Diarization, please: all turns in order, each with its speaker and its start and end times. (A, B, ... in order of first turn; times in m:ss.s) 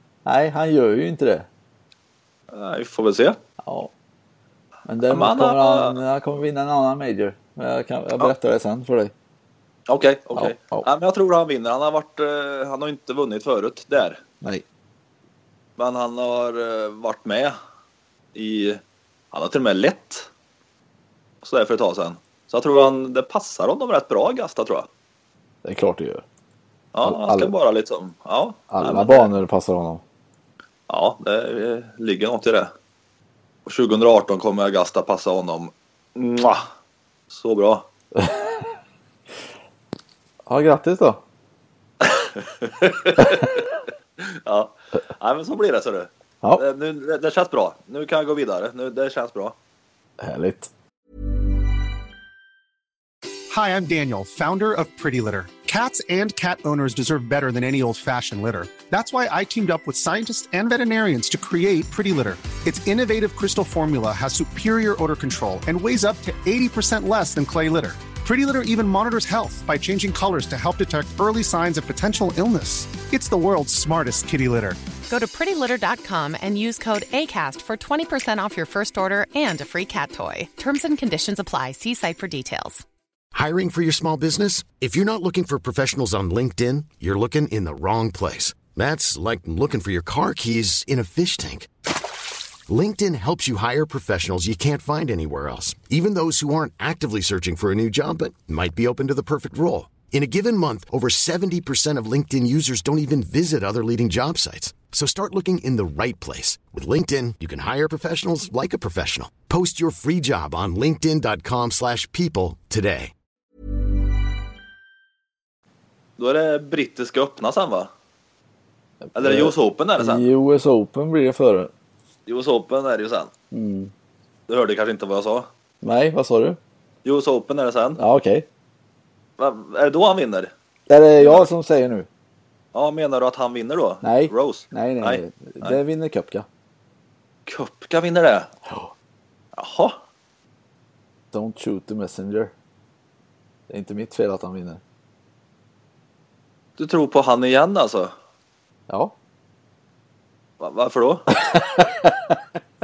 0:00.2-0:01.5 A
0:02.5-0:03.4 B
0:03.6-0:03.9 A
0:04.9-0:09.1 A
0:05.1-0:06.0 B
0:09.9-0:14.2 B
0:10.4-0:10.9 A
0:15.8-0:17.6 B
0:18.4-0:18.8 B
0:19.3-0:20.3 B
0:21.4-0:24.9 B
0:25.6-0:26.2 A
0:26.9-0:29.3 B
0:27.0-0:27.5 A
0:28.7-0:30.0 A
0:30.9-0:32.7 B
0:33.6-0:36.6 B
0:37.3-0:37.9 B
0:40.5-0:41.2 A
0:42.0-0:43.7 B
0:44.2-0:49.6 B
0:50.2-0:50.7 A
0:53.5-1:14.8 C
1:15.1-1:22.8 D
1:23.3-1:31.7 E
1:32.6-1:53.1 E
1:56.2-1:57.9 B
1:59.1-2:01.7 A
1:59.1-2:00.3 B
2:02.3-2:03.3 B
2:03.5-2:03.9 A
2:04.5-2:05.5 B
2:05.8-2:06.6 A
2:07.0-2:08.0 B
2:08.0-2:08.4 A
2:09.4-2:10.5 B
2:10.9-2:12.1 A
2:11.2-2:11.5 B
2:12.7-2:15.8 B
2:14.0-2:16.4 A
2:17.5-2:18.5 B
2:18.7-2:18.9 A
2:19.6-2:20.0 B
2:21.3-2:22.5 A
2:23.7-2:24.8 A
2:26.8-2:28.1 B
2:28.9-2:29.1 A
2:30.6-2:31.4 B
2:31.8-2:32.1 A